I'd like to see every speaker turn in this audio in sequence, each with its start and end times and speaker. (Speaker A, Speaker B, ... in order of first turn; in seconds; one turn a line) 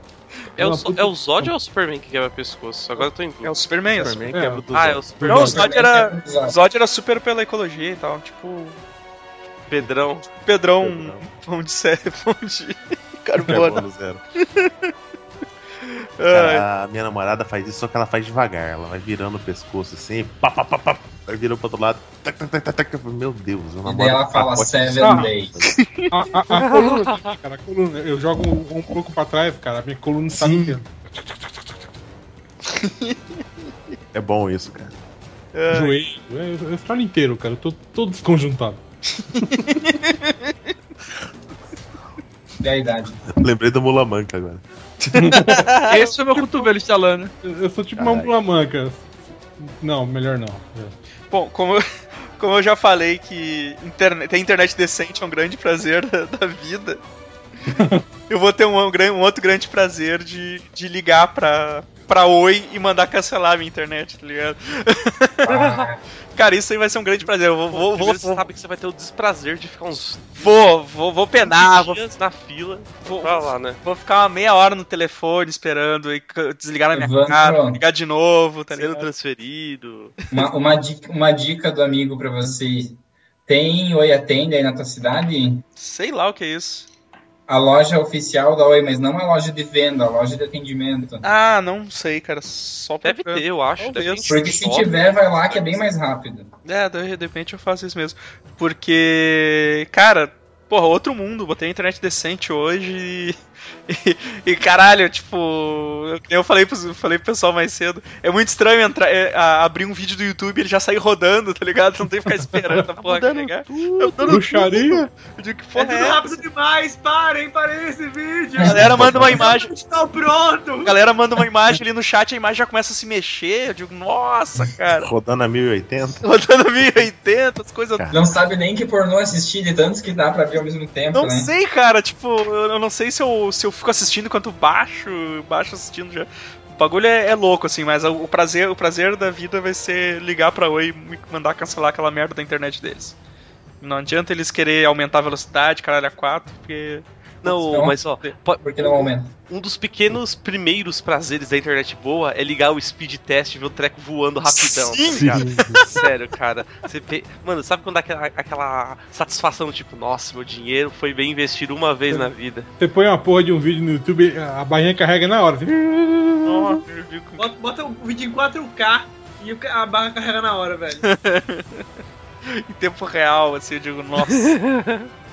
Speaker A: 0.6-1.5
Speaker B: 0.6-3.5
Speaker C: 3.0-4.2
Speaker D: 4.0-5.6
Speaker A: 4.3-4.6
Speaker B: 4.7-5.7
Speaker A: 5.2-5.6
Speaker C: 5.3-8.8
Speaker E: 5.3-6.6
Speaker B: 9.7-10.3
Speaker C: 10.4-13.8
Speaker D: 10.8-11.2
Speaker D: 13.4-14.2
Speaker C: 14.4-14.9
Speaker C: 15.8-16.6
Speaker D: 16.3-25.7
Speaker E: 23.9-25.6
Speaker A: 25.0-25.3
Speaker C: 25.7-26.1
Speaker A: 26.1-31.8
Speaker B: 26.6-27.4
Speaker D: 30.3-30.8
Speaker C: 32.7-33.4
Speaker D: 34.1-35.0
Speaker C: 35.5-36.1
Speaker A: 35.7-38.8
Speaker C: 39.2-40.5
Speaker E: 42.6-43.2
Speaker D: 43.3-44.6
Speaker C: 45.1-46.1
Speaker A: 45.1-45.7
Speaker F: 45.8-47.3
Speaker A: 47.4-49.0
Speaker D: 48.0-48.3
Speaker A: 49.6-51.0
Speaker C: 51.3-51.9
Speaker C: 52.4-57.0
Speaker A: 57.8-58.0
Speaker C: 58.3-68.5
Speaker E: 65.5-66.0
Speaker B: 67.7-70.5
Speaker C: 70.4-72.0
Speaker B: 71.4-73.8
Speaker C: 73.0-79.1
Speaker E: 76.9-77.8
Speaker B: 78.7-80.1
Speaker C: 80.2-80.5
Speaker E: 80.3-85.6
Speaker C: 85.8-86.9
Speaker E: 87.5-91.2
Speaker C: 91.2-94.5
Speaker B: 93.0-95.8
Speaker E: 94.3-96.5
Speaker C: 96.6-103.4
Speaker C: 103.9-116.4
Speaker A: 112.5-112.8
Speaker B: 113.0-114.4
Speaker A: 114.3-115.1
Speaker F: 115.8-121.0
Speaker E: 118.6-119.5
Speaker C: 118.7-119.7
Speaker D: 118.8-119.5
Speaker C: 120.8-125.1
Speaker D: 125.0-126.2
Speaker C: 126.2-128.4
Speaker D: 126.8-127.1
Speaker E: 128.1-131.5
Speaker C: 131.1-143.2
Speaker C: 143.8-147.1
Speaker B: 147.4-162.7
Speaker E: 147.4-148.0
Speaker C: 148.1-148.4
Speaker E: 148.5-149.3
Speaker C: 154.5-156.0
Speaker D: 155.1-155.9
Speaker A: 155.4-155.7
Speaker A: 162.8-166.8
Speaker C: 166.4-167.5
Speaker F: 167.4-171.1
Speaker C: 171.0-171.8
Speaker C: 172.5-174.6
Speaker B: 174.2-175.1